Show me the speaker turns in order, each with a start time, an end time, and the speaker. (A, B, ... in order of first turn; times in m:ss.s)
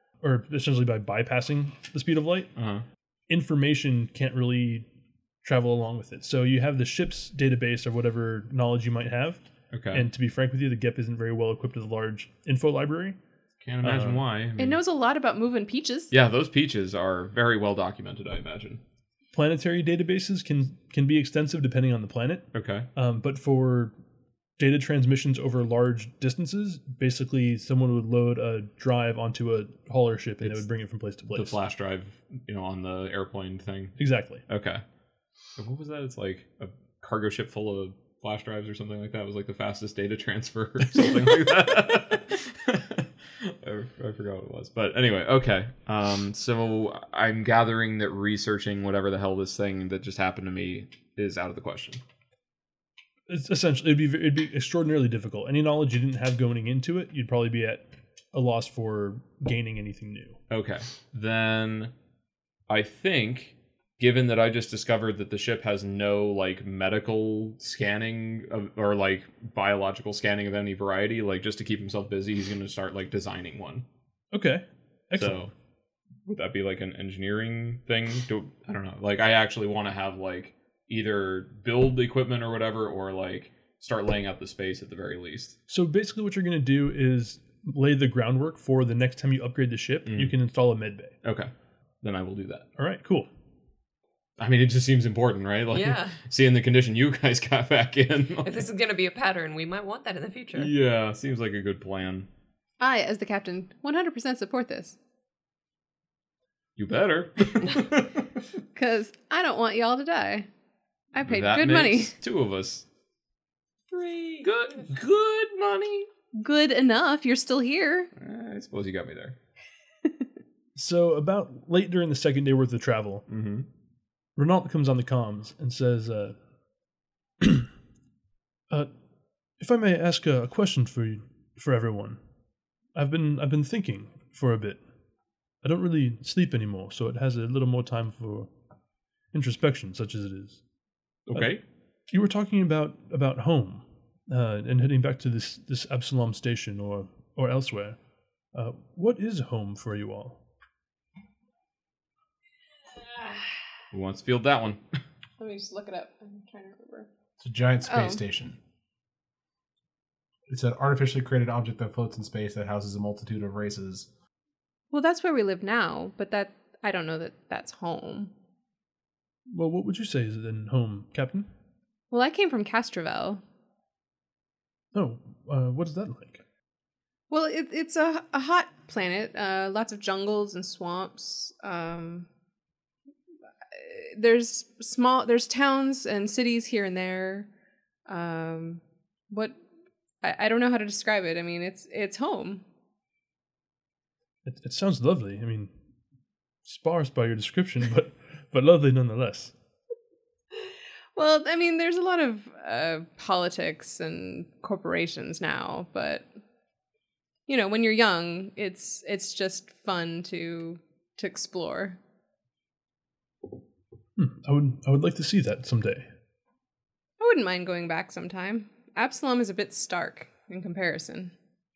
0:00.2-0:02.5 A
0:02.6-0:02.8 B
0:03.3-0:04.9 A
0:05.4-0:09.4 A
0:09.7-0:10.1 B
0:09.9-0:13.2 A
0:13.6-0:14.8 B
0:13.8-0:14.2 A
0:14.6-0:16.1 C
0:16.1-0:18.8 B
0:19.3-0:23.9 A
0:22.5-0:22.9 B
0:24.6-0:31.6 A
0:31.3-0:34.8 B
0:34.0-0:34.4 A
0:35.6-0:52.0 B
0:53.3-1:00.4 A
1:00.5-1:01.9 B
1:02.7-1:13.8 B
1:14.3-1:15.5 A
1:15.2-1:15.5 B
1:16.3-1:25.6 B
1:25.7-1:31.1 A
1:30.1-1:30.3 B
1:31.2-1:31.5 B
1:32.0-1:32.7 B
1:32.8-1:33.3 A
1:34.4-1:38.7 B
1:35.7-1:36.2 D
1:38.4-1:40.7 D
1:40.6-1:42.3 B
1:42.8-1:45.0 C
1:46.8-1:48.2 B
1:48.8-1:50.5 C
1:51.1-1:52.1 C
1:51.2-1:52.8 B
1:53.9-1:54.5 D
1:54.4-1:56.1 B
1:56.4-1:58.1 C
1:58.2-1:59.4 B
2:00.8-2:03.2 A
2:03.3-2:03.7 B
2:04.4-2:06.4 A
2:07.4-2:07.7 A
2:09.6-2:12.2 A
2:13.0-2:14.8 A
2:15.6-2:18.5 A
2:19.3-2:20.6 A
2:21.3-2:21.6 B
2:22.1-2:28.0 A
2:28.5-2:30.4 A
2:33.1-2:33.5 C
2:33.9-2:35.0 B
2:35.4-2:37.1 C
2:37.4-2:38.6 E
2:37.9-2:38.2 C
2:40.5-2:44.1 E
2:44.9-2:48.3 C
2:49.5-2:51.5 A
2:52.1-2:53.4 C
2:54.9-2:56.4 A
2:57.3-3:02.3 C
3:03.7-3:07.5 C
3:08.1-3:09.6 C
3:10.2-3:12.6 C
3:14.5-3:15.7 A
3:16.6-3:19.5 A
3:21.2-3:26.3 C
3:27.5-3:32.0 C
3:34.2-3:36.1 A
3:37.2-3:41.3 C